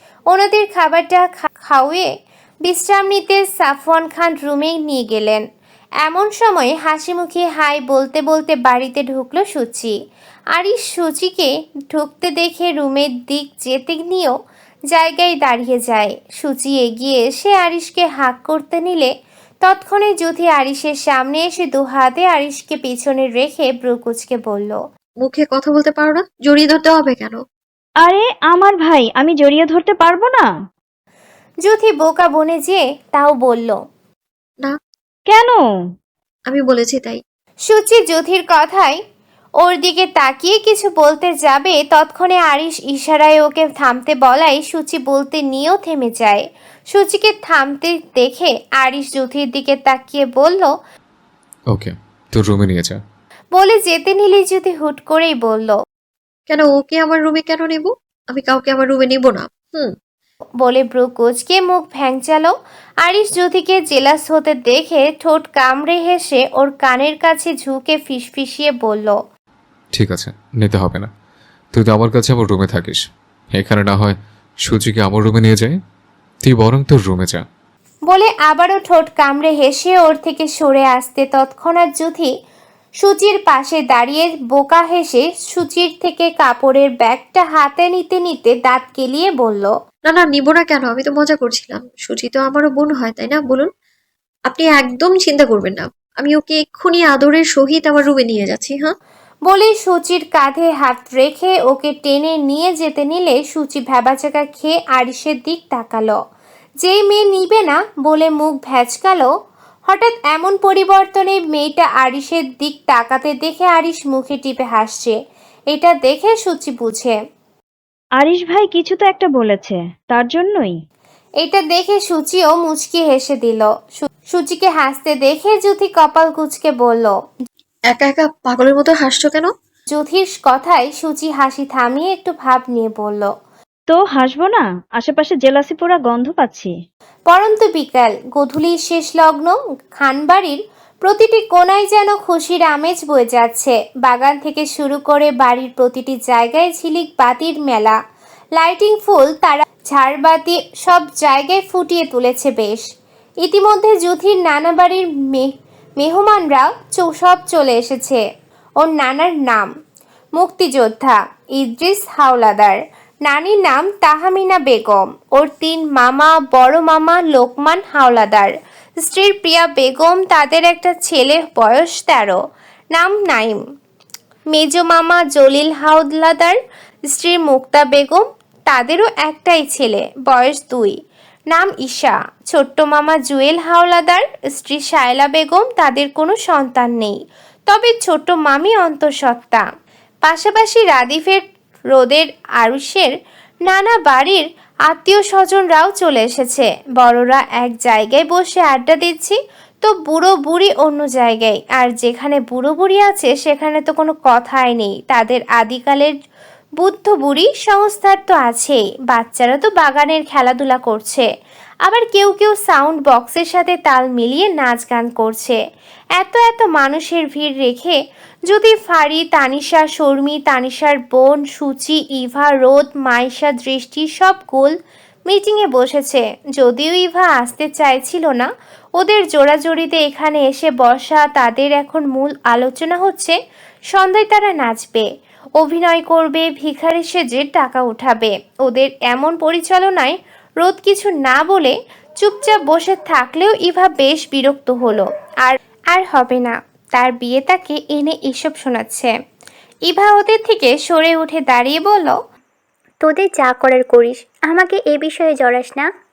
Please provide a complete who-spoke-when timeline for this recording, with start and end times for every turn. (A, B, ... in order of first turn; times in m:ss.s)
0:00.3-0:02.1 A
0:02.6-0:05.4 A
0:06.0-0:09.9 A
0:10.5-0:14.3 A
0:14.9-0:19.1 A
0:19.6-0:24.8 A
0:25.2-0:27.4 B
0:28.0-0:30.5 C
0:31.6-0:33.8 A
0:35.3-0:35.6 C
0:36.5-0:37.2 B
0:37.7-0:39.0 A
0:39.6-0:50.7 A
0:51.7-0:53.0 D
0:53.6-0:55.8 A
0:56.5-0:59.9 B
1:00.6-1:09.2 A
1:09.9-1:11.1 D
1:11.7-1:15.8 D
1:16.4-1:17.4 D
1:18.1-1:22.3 A
1:23.0-1:29.7 A
1:30.1-1:33.7 B
1:34.5-1:38.9 B
1:39.5-1:46.2 A
1:46.8-1:49.3 A
1:49.9-1:55.2 A
1:55.7-1:57.2 A
1:58.2-2:00.7 C
2:01.4-2:07.1 A
2:07.9-2:09.5 B
2:09.9-2:13.3 A
2:13.9-2:16.7 C
2:17.3-2:28.0 A
2:28.6-2:32.8 A
2:33.4-2:38.2 A
2:38.8-2:39.7 A
2:40.4-2:48.5 A
2:49.0-2:52.4 A
2:52.9-2:53.6 A
2:54.5-2:56.6 A
2:57.1-3:01.0 A
3:01.5-3:07.1 A
3:07.7-3:09.6 A
3:10.2-3:13.1 A
3:13.6-3:26.1 A
3:26.8-3:31.3 A
3:31.8-3:35.6 A
3:36.2-3:44.7 A
3:45.3-3:53.4 A
3:53.9-3:55.0 A
3:55.6-4:09.1 A
4:09.9-4:12.2 A
4:13.0-4:15.9 E